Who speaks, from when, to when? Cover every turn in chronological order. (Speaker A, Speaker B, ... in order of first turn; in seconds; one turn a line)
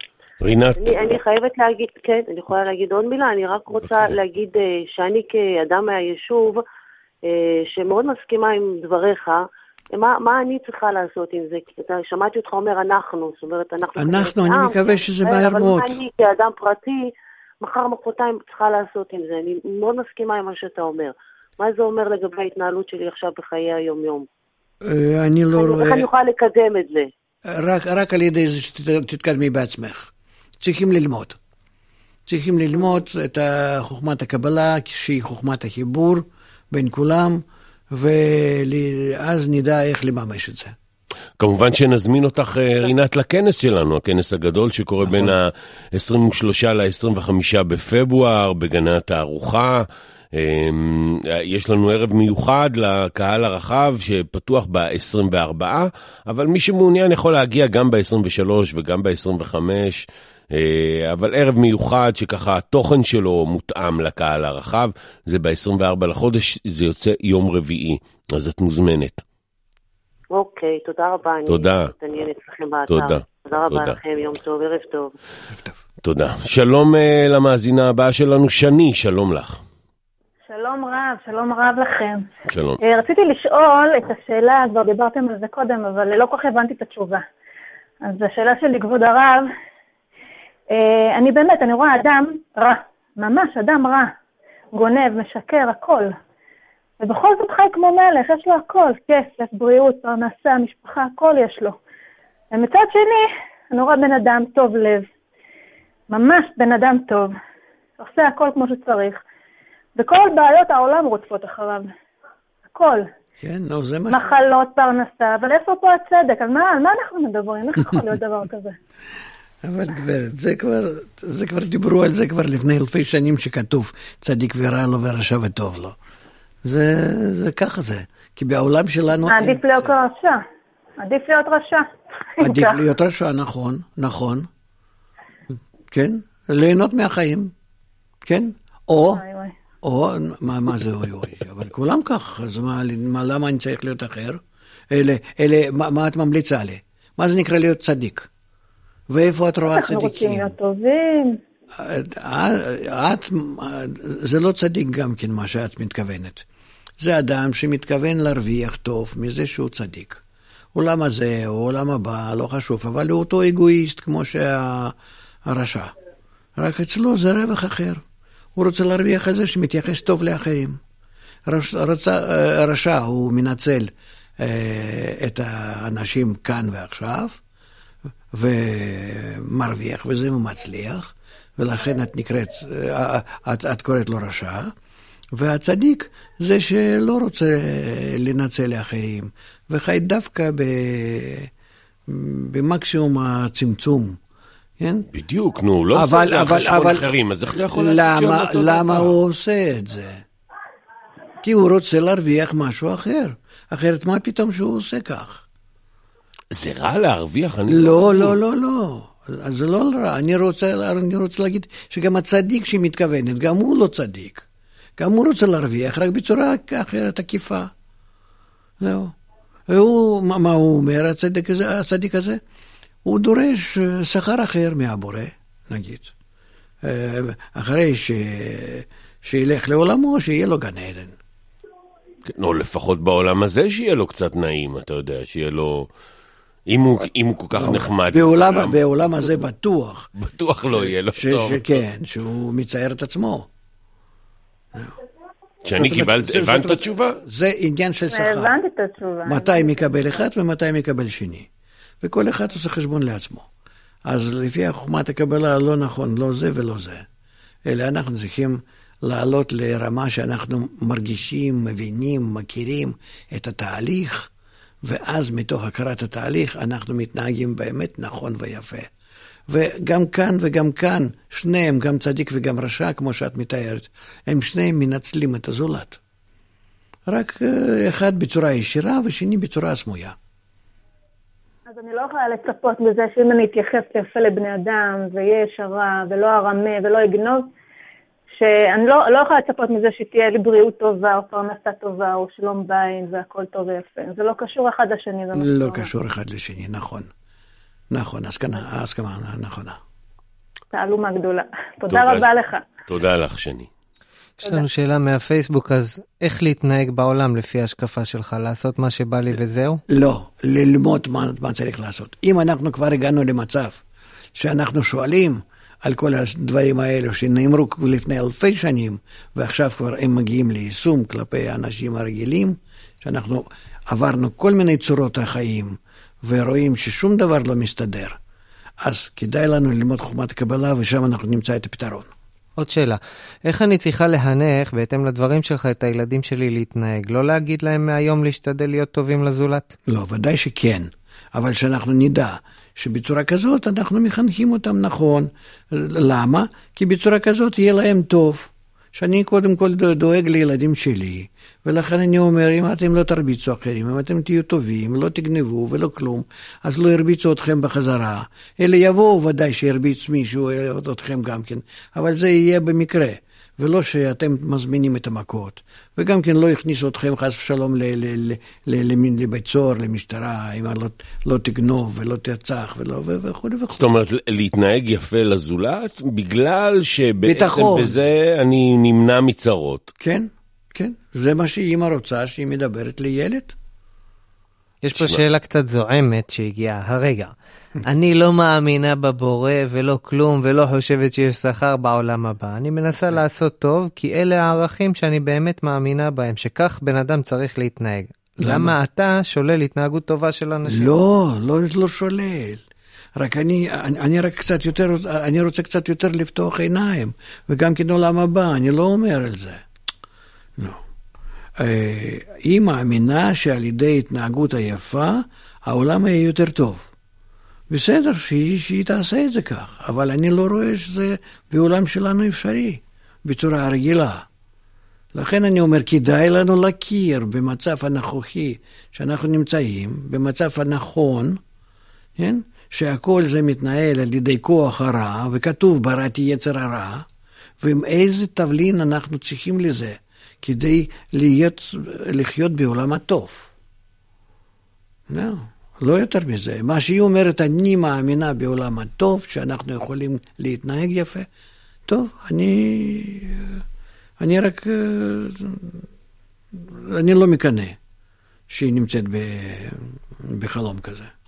Speaker A: 0.4-0.9
Speaker B: 0.8-6.6
Speaker A: 3.8-4.2
Speaker B: 7.2-24.3
Speaker C: 13.9-16.0
Speaker C: 24.8-26.1
Speaker B: 25.6-27.1
Speaker C: 27.4-31.4
Speaker C: 32.3-40.7
Speaker A: 41.4-69.2
Speaker C: 45.0-45.3
Speaker B: 70.3-75.1
Speaker A: 71.5-71.9
Speaker A: 72.9-74.0
Speaker C: 75.5-75.8
Speaker A: 76.0-79.6
Speaker D: 80.5-82.2
Speaker A: 82.5-82.8
Speaker D: 82.8-87.2
Speaker D: 88.0-89.5
Speaker D: 90.7-94.1
Speaker D: 94.7-96.1
Speaker D: 97.0-101.8
Speaker D: 102.5-105.1
Speaker D: 106.1-107.3
Speaker D: 108.0-109.2
Speaker D: 110.0-111.9
Speaker D: 112.7-113.1
Speaker C: 113.4-114.4
Speaker D: 114.1-118.7
Speaker C: 119.6-126.0
Speaker C: 126.6-129.9
Speaker D: 129.2-130.4
Speaker D: 131.0-131.8
Speaker D: 132.4-132.8
Speaker C: 132.4-134.5
Speaker C: 135.9-137.5
Speaker C: 138.2-139.2
Speaker D: 139.1-139.5
Speaker C: 139.8-148.3
Speaker C: 149.1-150.6
Speaker D: 149.7-151.4
Speaker C: 151.8-156.4
Speaker C: 157.0-160.2
Speaker C: 160.7-164.9
Speaker C: 165.4-165.9
Speaker C: 166.6-168.0
Speaker C: 168.6-170.8
Speaker C: 171.5-177.4
Speaker C: 178.3-184.7
Speaker C: 185.3-191.5
Speaker C: 192.1-194.2
Speaker C: 194.8-195.1
Speaker A: 195.1-199.1
Speaker C: 195.9-197.1
Speaker C: 197.7-200.2
Speaker C: 201.4-205.4
Speaker A: 206.5-208.3
Speaker C: 207.7-214.4
Speaker C: 215.0-217.7
Speaker C: 218.8-219.1
Speaker C: 219.7-222.4
Speaker C: 223.0-226.1
Speaker C: 226.8-231.2
Speaker A: 232.2-235.9
Speaker A: 236.7-238.8
Speaker C: 237.5-240.1
Speaker A: 240.2-241.7
Speaker C: 240.7-243.5
Speaker A: 245.6-247.2
Speaker C: 245.7-248.6
Speaker D: 248.1-249.8
Speaker C: 249.2-251.5
Speaker C: 252.0-253.5
Speaker C: 254.1-257.0
Speaker C: 257.6-264.3
Speaker C: 264.8-268.9
Speaker C: 269.5-276.0
Speaker C: 277.1-280.1
Speaker D: 281.7-287.5
Speaker D: 288.4-295.9
Speaker C: 295.3-297.1
Speaker C: 297.9-299.8
Speaker D: 300.7-302.6
Speaker A: 301.9-302.3
Speaker A: 302.9-303.7
Speaker E: 304.4-309.8
Speaker C: 309.9-313.8
Speaker C: 314.3-328.2
Speaker C: 328.8-332.1
Speaker E: 332.6-339.7
Speaker C: 339.9-373.9
Speaker A: 373.7-379.9
Speaker C: 377.2-377.9
Speaker C: 380.0-383.5
Speaker E: 384.8-387.3
Speaker A: 384.9-385.2
Speaker E: 387.9-400.9
Speaker C: 398.4-398.7
Speaker C: 400.6-402.6
Speaker C: 403.1-409.6
Speaker C: 411.6-416.9
Speaker C: 417.7-424.3
Speaker C: 425.1-431.4
Speaker C: 432.2-437.1
Speaker C: 437.6-443.5
Speaker C: 445.1-451.3
Speaker C: 451.9-453.6
Speaker C: 454.2-455.8
Speaker C: 456.5-457.8
Speaker C: 458.5-461.1